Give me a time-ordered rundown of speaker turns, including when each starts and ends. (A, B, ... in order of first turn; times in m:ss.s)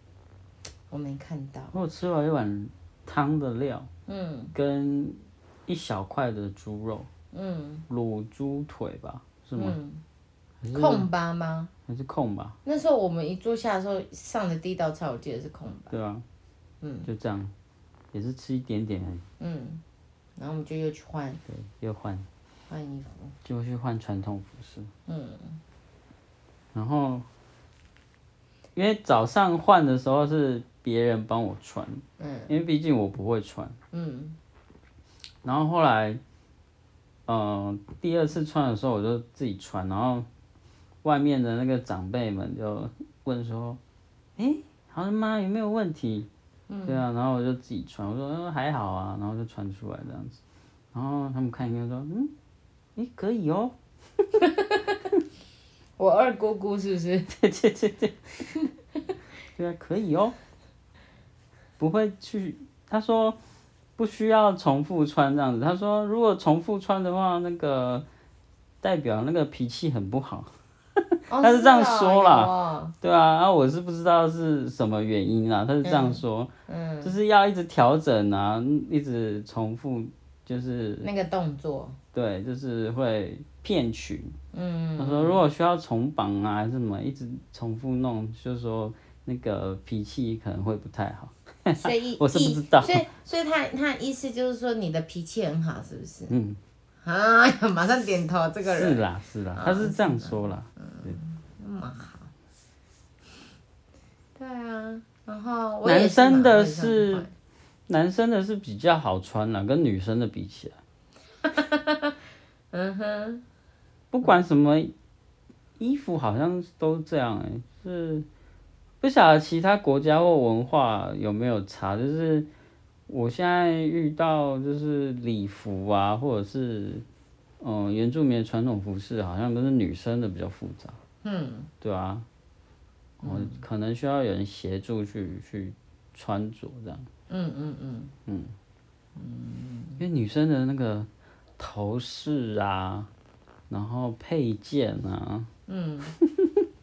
0:00.9-0:01.7 A
0:01.7-0:03.9 B
0:04.1-0:04.5 A
0:04.5-0:07.1 B
0:07.3-0:07.8 A
0:07.9-0:09.8 B
0:09.6-0:10.0 A
0:10.6-0:11.1 B
0:10.8-0:11.7 A
0:11.9-0:12.6 B
0:12.6-0:16.0 A
0:15.9-0:16.2 B
0:16.8-0:17.1 A
0:17.1-0:17.5 B
0:18.1-0:19.2 B
0:19.4-0:19.8 A
0:20.4-0:21.4 A
0:21.5-0:22.3 B
0:22.7-0:23.4 A
0:23.4-0:24.9 B
0:25.1-0:25.6 A
0:26.7-0:27.3 B
0:28.8-0:33.8 B
0:32.2-0:32.5 A
0:33.9-0:34.4 A
0:35.4-0:36.2 B
0:37.3-0:40.3 B
0:41.0-0:43.8 B
0:44.4-0:46.3 B
0:46.7-0:47.0 A
0:46.9-0:50.4 B
0:50.9-0:52.3 B
0:53.0-0:53.8 B
0:54.4-0:54.9 A
0:56.0-0:57.3 A
0:57.3-0:58.2 B
0:59.6-1:00.4 B
1:01.8-1:03.4 B
1:04.0-1:08.0 B
1:08.8-1:16.5 B
1:11.3-1:12.9 A
1:15.8-1:17.2 A
1:17.0-1:21.1 B
1:21.0-1:22.0 A
1:22.1-1:24.4 B
1:24.5-1:25.4 A
1:25.0-1:33.1 B
1:31.7-1:36.3 A
1:36.3-1:36.6 B
1:37.0-1:39.0 A
1:38.7-1:40.7 B
1:39.6-1:42.3 A
1:44.4-1:47.3 A
1:45.8-1:47.3 B
1:47.9-1:50.8 B
1:51.4-1:52.2 A
1:52.7-1:53.4 A
1:54.1-1:54.9 B
1:55.8-1:58.3 B
1:59.0-2:02.5 B
2:03.1-2:07.0 B
2:07.6-2:11.0 B
2:11.2-2:11.7 A
2:11.8-2:12.3 B
2:13.2-2:17.1 B
2:13.2-2:13.6 A
2:17.3-2:18.1 A
2:18.3-2:18.6 B
2:19.2-2:20.0 A
2:20.0-2:23.1 B
2:23.7-2:25.5 B
2:25.7-2:26.2 A
2:26.3-2:26.6 B